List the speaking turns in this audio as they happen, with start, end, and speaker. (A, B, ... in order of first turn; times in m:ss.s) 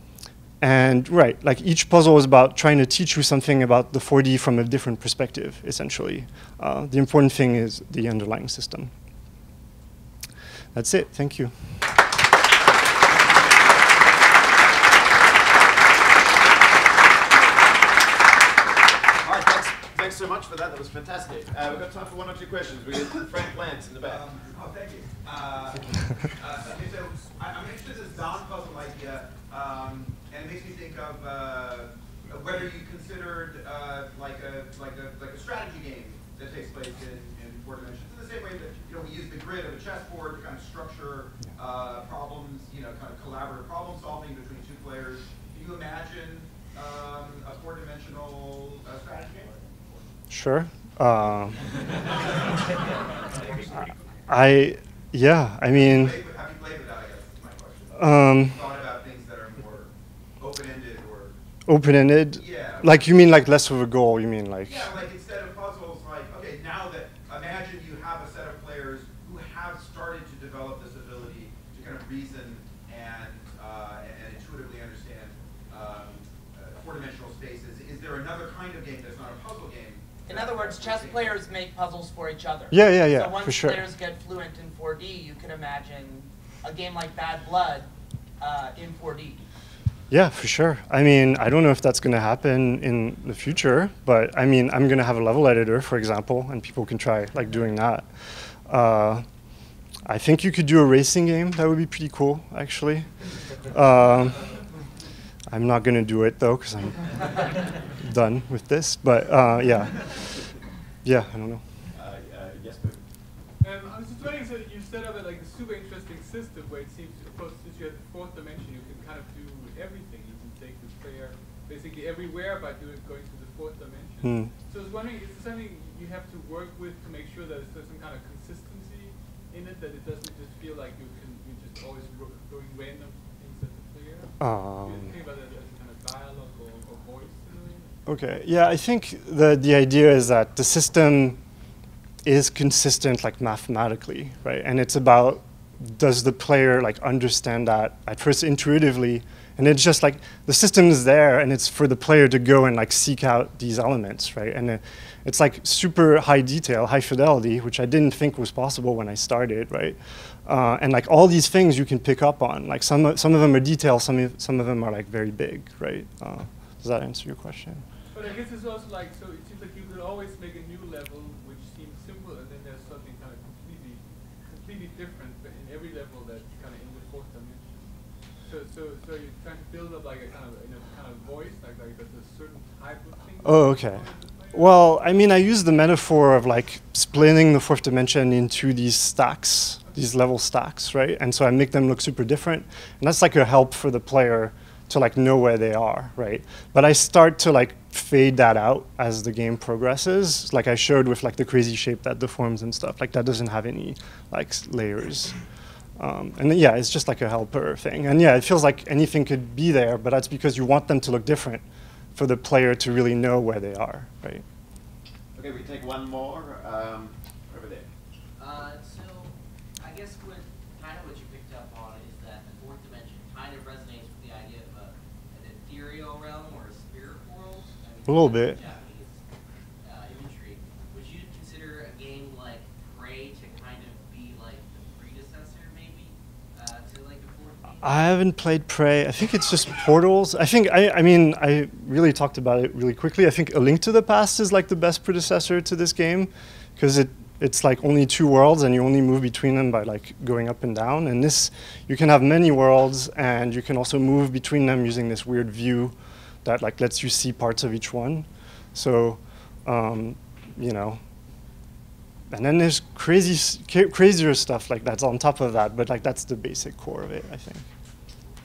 0:00.6-0:08.9 A
0:10.7-0:11.5 A
0:19.2-0:24.3 B
0:24.0-0:50.1 C
0:50.3-0:51.6 A
0:54.3-0:56.1 A
0:55.7-1:01.3 C
0:58.0-0:58.6 A
1:01.7-1:04.9 A
1:02.4-1:03.1 C
1:04.6-1:21.5 C
1:20.3-1:29.4 D
1:22.7-1:23.9 A
1:30.1-1:38.0 A
1:38.7-1:39.2 A
1:40.0-1:43.1 A
1:43.6-1:44.5 A
1:45.5-1:50.4 A
1:51.0-1:51.6 A
1:51.9-1:53.0 B
1:53.6-2:17.9 E
2:04.2-2:04.5 A
2:14.4-2:15.1 A
2:18.0-2:21.4 A
2:22.2-2:47.8 A
2:48.1-2:57.8 E
2:58.4-3:04.8 E
3:03.4-3:25.3 A
3:26.0-3:31.6 A
3:32.1-3:34.4 A
3:35.3-3:37.9 B
3:38.4-3:49.2 F
3:48.1-3:48.6 A
3:49.8-3:58.1 F
3:57.8-4:21.0 A
4:22.3-4:27.6 A